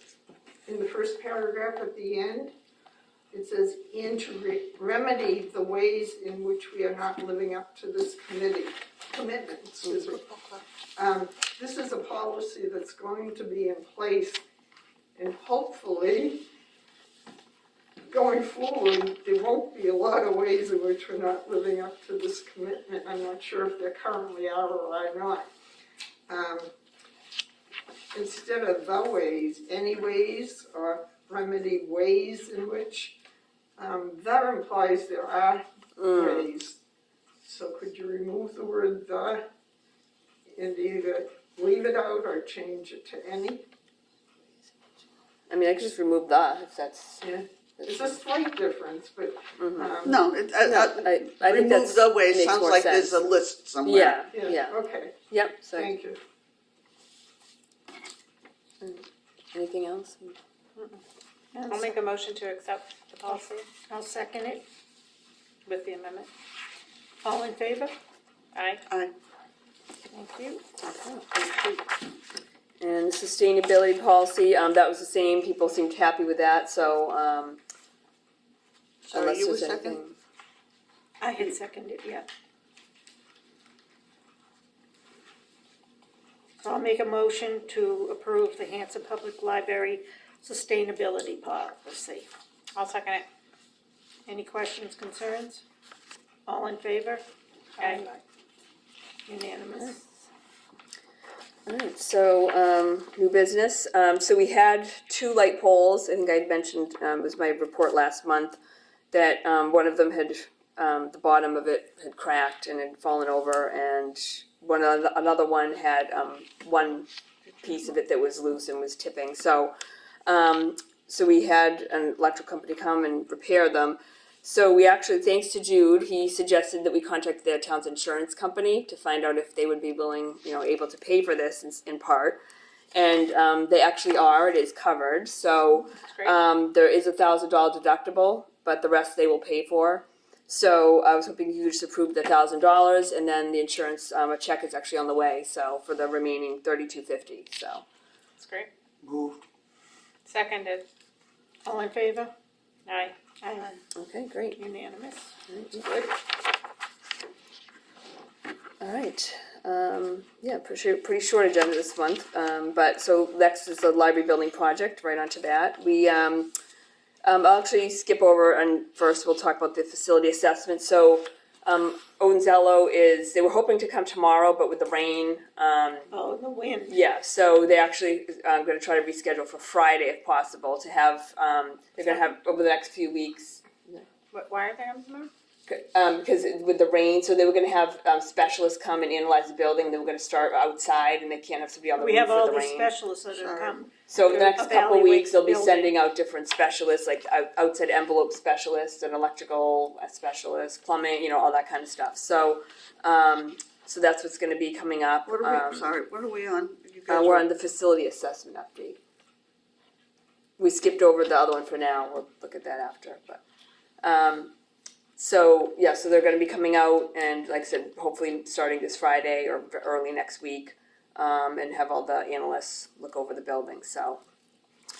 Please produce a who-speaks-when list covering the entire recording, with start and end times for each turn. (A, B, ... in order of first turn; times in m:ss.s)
0:00.6-0:02.5 A
0:03.3-0:10.2 A
0:10.3-0:10.6 B
0:11.0-0:14.4 A
0:15.2-0:16.5 A
0:18.1-0:25.5 A
0:26.3-0:26.7 A
0:28.1-0:33.2 A
0:33.8-0:36.8 A
0:36.0-0:36.5 C
0:37.4-0:39.4 A
0:40.5-0:43.6 A
0:45.5-0:47.3 C
0:47.2-0:50.2 A
0:47.8-0:48.2 C
0:49.6-0:50.0 C
0:50.0-0:54.2 B
0:50.6-0:53.3 C
0:53.8-0:54.8 C
0:54.3-0:55.2 A
0:55.3-0:56.0 C
0:55.7-0:56.2 A
0:58.8-1:00.4 C
1:01.5-1:02.0 D
1:01.7-1:03.7 E
1:03.3-1:04.6 D
1:05.7-1:06.3 E
1:07.2-1:07.9 D
1:08.5-1:08.8 E
1:08.9-1:09.1 B
1:10.1-1:10.6 D
1:10.8-1:11.6 C
1:12.8-1:17.6 C
1:19.0-1:20.0 B
1:19.1-1:20.2 C
1:21.2-1:22.3 D
1:26.6-1:32.3 D
1:32.7-1:33.2 E
1:34.3-1:35.6 D
1:36.5-1:37.2 D
1:37.8-1:38.2 D
1:37.8-1:38.1 E
1:39.3-1:40.0 D
1:41.6-1:48.6 C
1:49.1-1:57.1 C
1:57.6-1:59.7 C
2:00.2-2:12.4 C
2:12.9-2:27.8 C
2:15.9-2:16.3 E
2:28.4-2:28.7 E
2:29.0-2:29.4 B
2:30.2-2:30.8 E
2:31.6-2:32.3 D
2:32.8-2:33.2 E
2:33.4-2:33.8 D
2:33.9-2:34.6 C
2:34.6-2:35.3 D
2:35.5-2:35.9 C
2:38.8-2:46.5 C
2:47.2-2:56.1 C
2:56.1-2:56.9 D
2:56.9-3:04.0 C
3:02.0-3:02.3 E
3:04.3-3:05.3 E
3:05.7-3:12.9 C
3:12.0-3:15.9 D
3:13.3-3:13.8 B
3:14.1-3:25.9 C
3:25.2-3:27.5 B
3:27.1-3:29.0 C
3:30.6-3:33.4 C
3:34.0-3:34.5 C
3:35.2-3:44.2 C